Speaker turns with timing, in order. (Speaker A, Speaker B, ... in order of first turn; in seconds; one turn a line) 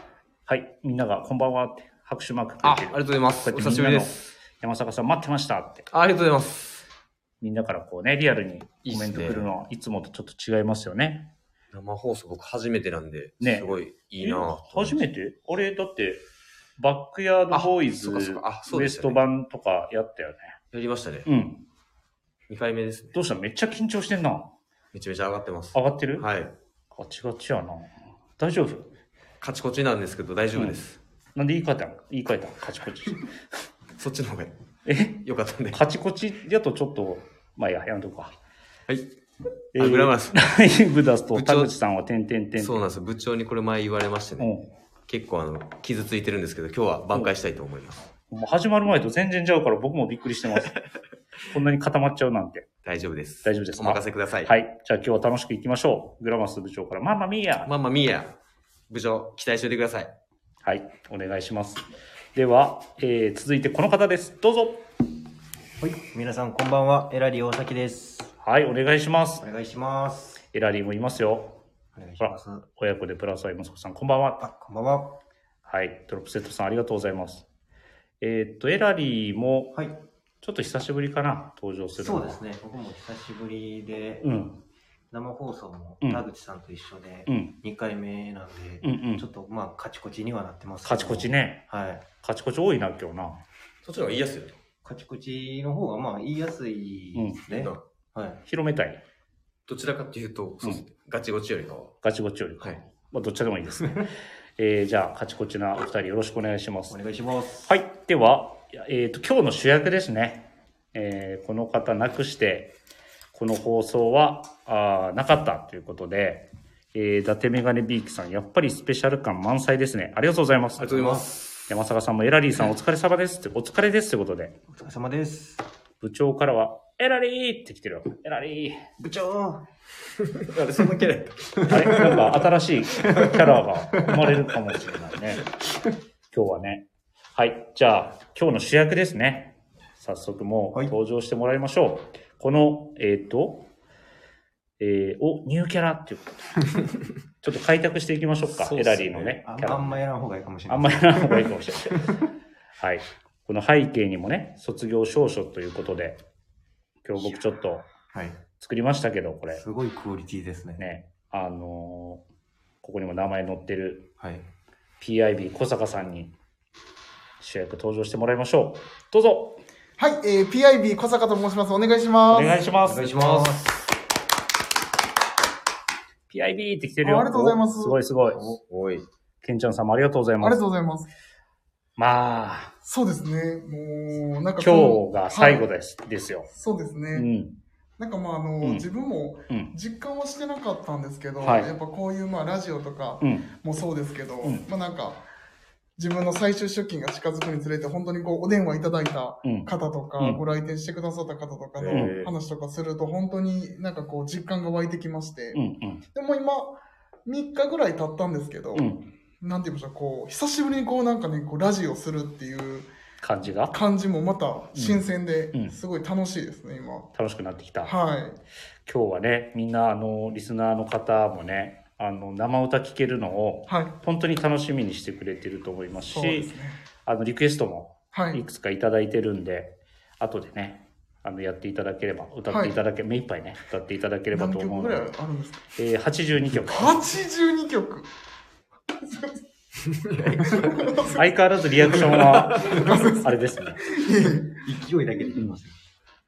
Speaker A: 0.5-5.9
Speaker B: 2.6-4.2
Speaker B: 5.9-6.8
Speaker A: 7.4-11.3
Speaker B: 8.8-9.5
Speaker B: 11.7-15.0
Speaker A: 13.4-16.2
Speaker A: 16.8-20.6
Speaker B: 17.5-19.2
Speaker B: 20.7-21.3
Speaker A: 21.2-21.6
Speaker B: 22.5-23.2
Speaker A: 23.1-24.5
Speaker B: 24.9-26.5
Speaker A: 25.7-26.3
Speaker A: 26.9-28.9
Speaker B: 29.4-31.0
Speaker A: 31.3-33.2
Speaker B: 34.0-34.5
Speaker A: 34.9-38.3
Speaker B: 35.1-35.8
Speaker B: 39.8-40.4
Speaker A: 39.8-42.8
Speaker B: 41.3-41.7
Speaker B: 42.6-44.5
Speaker A: 44.4-44.7
Speaker B: 45.1-48.1
Speaker A: 48.3-50.8
Speaker A: 51.5-52.7
Speaker B: 52.8-54.5
Speaker A: 53.4-57.7
Speaker B: 57.7-58.3
Speaker B: 58.9-60.1
Speaker A: 60.6-61.8
Speaker A: 62.3-64.8
Speaker C: 65.8-68.3
Speaker A: 68.4-69.4
Speaker C: 69.4-70.4
Speaker A: 70.5-71.6
Speaker C: 71.9-72.7
Speaker A: 72.2-74.4
Speaker C: 74.4-75.2
Speaker A: 75.6-77.4
Speaker A: 78.2-79.8
Speaker C: 79.7-80.0
Speaker A: 80.4-82.4
Speaker C: 82.0-84.4
Speaker A: 84.2-84.6
Speaker C: 85.1-92.0
Speaker A: 87.3-87.5
Speaker A: 88.8-89.2
Speaker A: 90.8-91.6
Speaker A: 92.2-93.4
Speaker B: 93.8-94.6
Speaker C: 94.8-98.4
Speaker B: 97.5-97.8
Speaker A: 98.4-99.0
Speaker B: 99.7-101.9
Speaker A: 102.0-107.0
Speaker C: 106.9-107.7
Speaker A: 107.7-112.8
Speaker A: 113.3-124.6
Speaker B: 120.8-121.7
Speaker C: 124.7-125.6
Speaker A: 126.0-128.8
Speaker C: 129.0-129.6
Speaker B: 130.5-132.2
Speaker A: 131.7-135.4
Speaker C: 133.0-133.3
Speaker A: 136.3-143.7
Speaker A: 144.8-146.7
Speaker A: 147.4-150.0
Speaker C: 149.3-151.5
Speaker A: 150.7-152.1
Speaker A: 152.8-156.2
Speaker A: 157.0-157.8
Speaker A: 158.6-159.6
Speaker C: 159.5-160.9
Speaker A: 160.8-162.2
Speaker A: 162.8-164.1
Speaker A: 165.0-166.3
Speaker A: 167.4-169.6
Speaker D: 170.0-172.7
Speaker A: 172.3-173.2
Speaker C: 172.8-173.8
Speaker A: 176.3-178.4
Speaker D: 177.0-178.0
Speaker B: 178.4-179.0
Speaker A: 179.4-180.6
Speaker D: 180.4-181.1
Speaker A: 182.0-182.7
Speaker D: 182.8-185.7
Speaker A: 184.6-186.5
Speaker D: 186.5-187.3
Speaker A: 187.1-187.6
Speaker D: 188.0-195.2
Speaker A: 191.4-191.7
Speaker A: 193.2-193.5
Speaker D: 196.0-205.6
Speaker A: 199.4-200.4
Speaker B: 201.8-202.3
Speaker A: 201.9-202.2
Speaker A: 205.5-206.0
Speaker D: 206.1-212.9
Speaker A: 208.7-209.1
Speaker A: 213.2-213.8
Speaker D: 213.7-217.1
Speaker A: 214.8-215.0
Speaker A: 217.1-217.9
Speaker D: 217.8-218.4
Speaker A: 218.9-226.5
Speaker D: 223.7-223.9
Speaker D: 226.1-226.8
Speaker A: 227.1-235.1
Speaker D: 228.1-228.4
Speaker D: 232.5-232.7
Speaker D: 234.3-235.7
Speaker A: 235.8-237.0
Speaker D: 236.6-238.1
Speaker D: 239.1-239.3
Speaker B: 240.1-240.6
Speaker D: 240.4-241.3
Speaker A: 241.1-243.8
Speaker D: 242.7-243.3
Speaker D: 243.9-244.6
Speaker C: 244.6-245.8